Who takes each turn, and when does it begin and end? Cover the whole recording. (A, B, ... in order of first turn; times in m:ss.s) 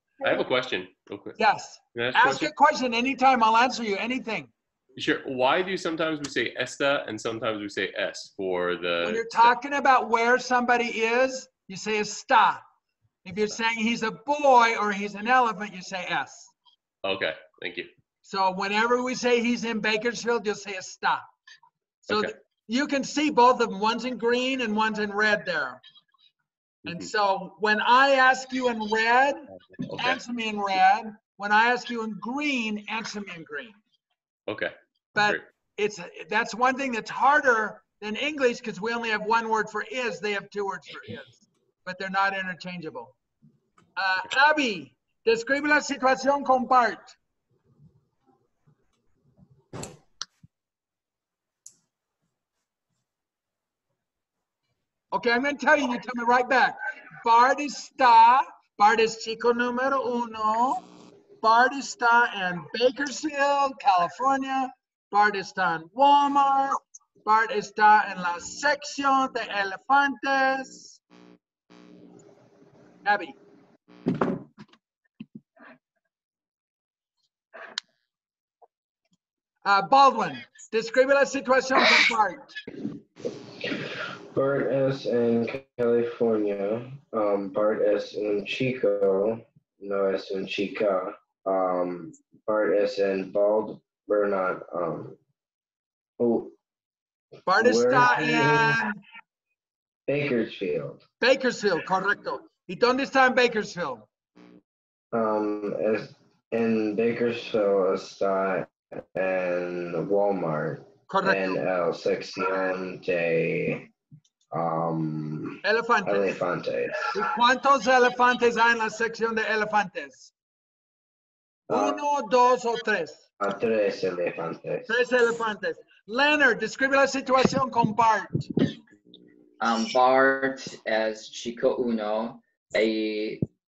0:00.2-0:01.4 A
0:01.4-0:04.5 B
0:02.0-0:02.5 A
0:05.0-0:09.5 A
0:09.0-0:12.6 B
0:13.2-0:16.5 B
0:17.0-0:17.9 A
0:18.2-0:21.3 B
0:22.0-0:25.8 B
0:22.1-0:22.3 A
0:26.9-0:33.8 B
0:29.5-0:30.2 A
0:34.5-0:35.4 A
0:35.2-0:43.2 B
0:44.0-0:47.2 B
0:55.1-1:00.8 B
1:01.4-1:11.0 B
1:13.0-1:13.4 B
1:19.6-1:22.6 B
1:23.6-1:35.2 C
1:36.2-1:36.5 C
1:37.5-1:39.0 B
1:37.6-1:38.8 C
1:40.1-1:41.0 C
1:41.2-1:44.1 B
1:45.1-1:53.9 C
1:51.1-1:51.6 B
1:54.5-1:57.2 C
1:55.6-1:56.4 B
1:57.1-2:00.3 B
2:01.7-2:02.0 C
2:01.7-2:03.2 B
2:03.4-2:05.0 C
2:04.9-2:08.5 B
2:09.6-2:13.4 D